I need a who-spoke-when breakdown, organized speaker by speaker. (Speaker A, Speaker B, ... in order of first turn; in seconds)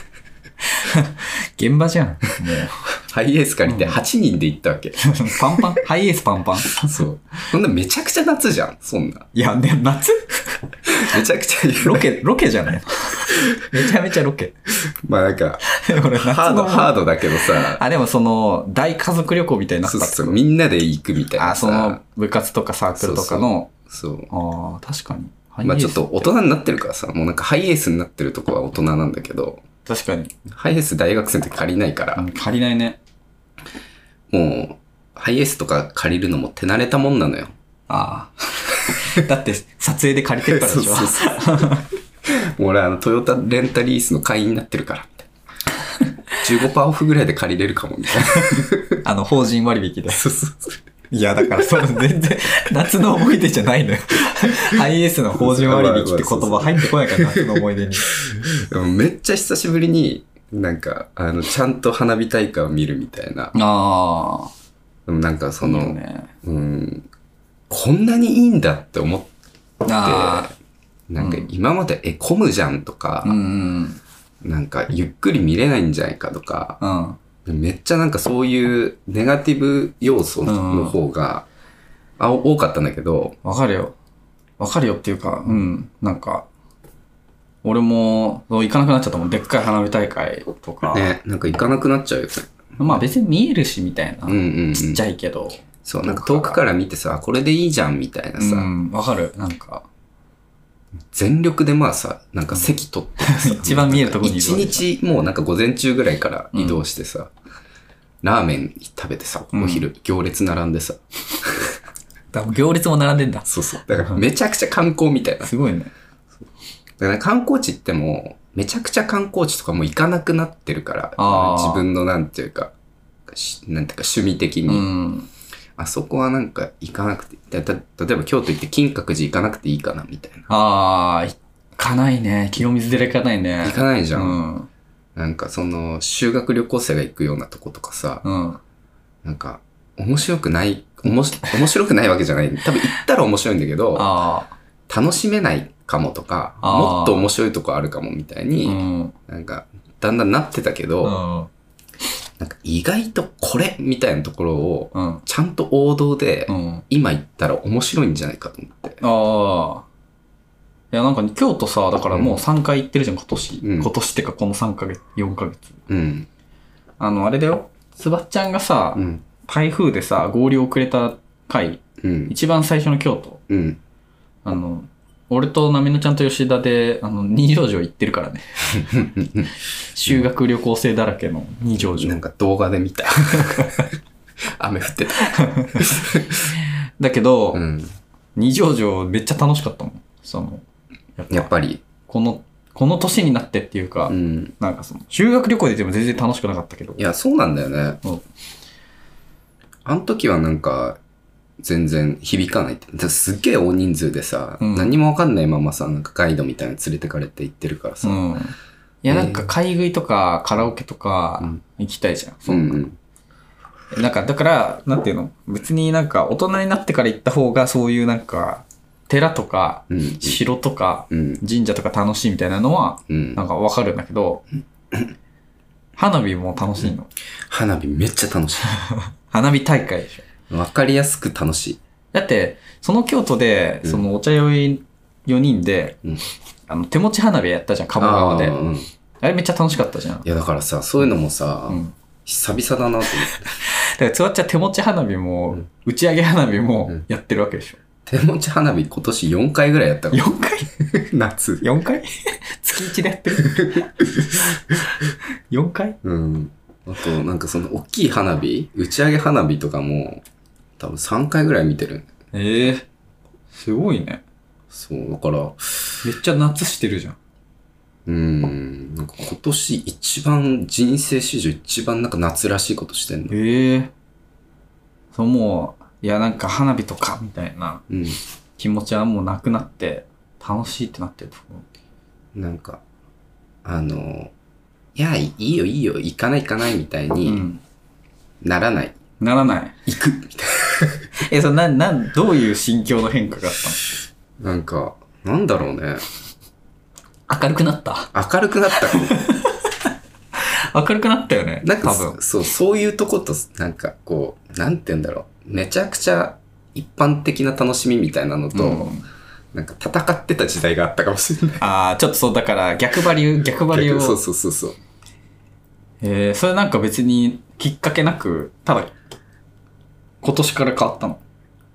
Speaker A: 0.7-2.8, 3.6-4.0, 5.0-7.0, 9.3-10.6, 11.8-14.5, 15.7-16.9, 17.6-20.4, 21.4-23.7, 24.3-26.3, 29.9-30.3, 32.1-33.0, 37.9-41.9, 48.3-50.2, 51.1-58.1, 63.5-64.5, 65.6-66.3, 69.8-70.5, 71.2-71.5, 73.2-74.0, 76.8-77.2, 80.5-81.0, 83.4-84.0, 84.6-86.5, 87.6-91.1, 92.8-96.6, 98.4-99.8, 103.2-104.8, 106.5-106.8, 109.5-109.9, 112.3-114.2, 115.4-115.9, 121.2-121.8, 124.7-125.3, 130.5-134.7, 138.2-138.6, 143.9-144.5, 146.6-147.3, 148.6-149.1, 151.0-151.5, 154.9-155.2, 156.5-156.8, 159.0-159.8, 160.9-165.8, 167.0-173.4, 174.4-179.0, 179.9-182.2, 183.3-183.8, 185.3-185.9, 187.0-187.6, 188.3-190.6, 191.2-191.5, 192.1-197.0, 204.6-204.9, 208.0-212.8, 213.9-224.4, 226.0-227.1, 229.3-230.2, 232.1-236.0, 236.7-238.6, 239.2-240.3, 241.7-241.9, 243.4-247.8, 250.1-250.7, 251.6-253.9, 255.5-256.0, 262.3-262.9, 263.5-264.2, 266.0-267.2, 273.3-273.9, 275.1-277.8, 278.6-281.6, 287.2-287.6, 289.2-289.8, 291.2-293.9, 297.3-298.1, 298.8-299.7, 300.4-302.2, 308.5-309.0, 311.6-314.2, 316.0-318.9, 320.2-321.2
Speaker B: 3.1-5.7, 6.8-9.3, 10.9-12.1, 14.9-17.8, 19.8-22.0, 23.0-24.3, 25.6-29.6, 30.5-32.2, 34.3-37.5, 40.5-41.7, 42.2-45.3, 46.4-49.0, 50.1-50.8, 51.4-51.8, 55.3-63.5, 65.1-67.0, 67.7-69.3, 70.0-70.5, 71.1-73.4, 74.4-76.8, 77.4-81.5, 82.2-83.3, 90.9-93.0, 94.3-95.0, 95.8-98.7, 101.1-107.3, 108.2-111.7, 113.5-115.5, 117.0-122.7, 123.3-124.9, 125.8-130.5, 133.6-134.4, 135.2-138.2, 139.2-144.1, 144.9-151.2, 152.4-159.0, 162.1-162.4, 163.6-163.9, 165.9-166.3, 168.9-169.2, 172.0-172.3, 173.5-173.8, 178.8-179.5, 181.8-183.9, 184.6-186.5, 187.5-187.9, 191.3-191.8, 194.1-194.5, 197.0-198.0, 199.8-201.0, 201.6-208.2, 209.1-209.5, 212.5-213.0, 219.9-220.4, 221.1-221.4, 223.1-223.4, 227.5-228.7, 230.5-231.8, 237.9-238.9, 240.2-243.5, 248.1-251.7, 253.6-254.4, 256.0-260.2, 260.8-262.1, 264.7-266.0, 268.1-273.3, 277.9-278.2, 282.3-282.8, 283.6-284.3, 284.9-287.4, 288.4-288.9, 289.9-291.1, 294.4-296.0, 298.1-299.2, 301.6-308.9, 309.5-311.6, 313.7-314.8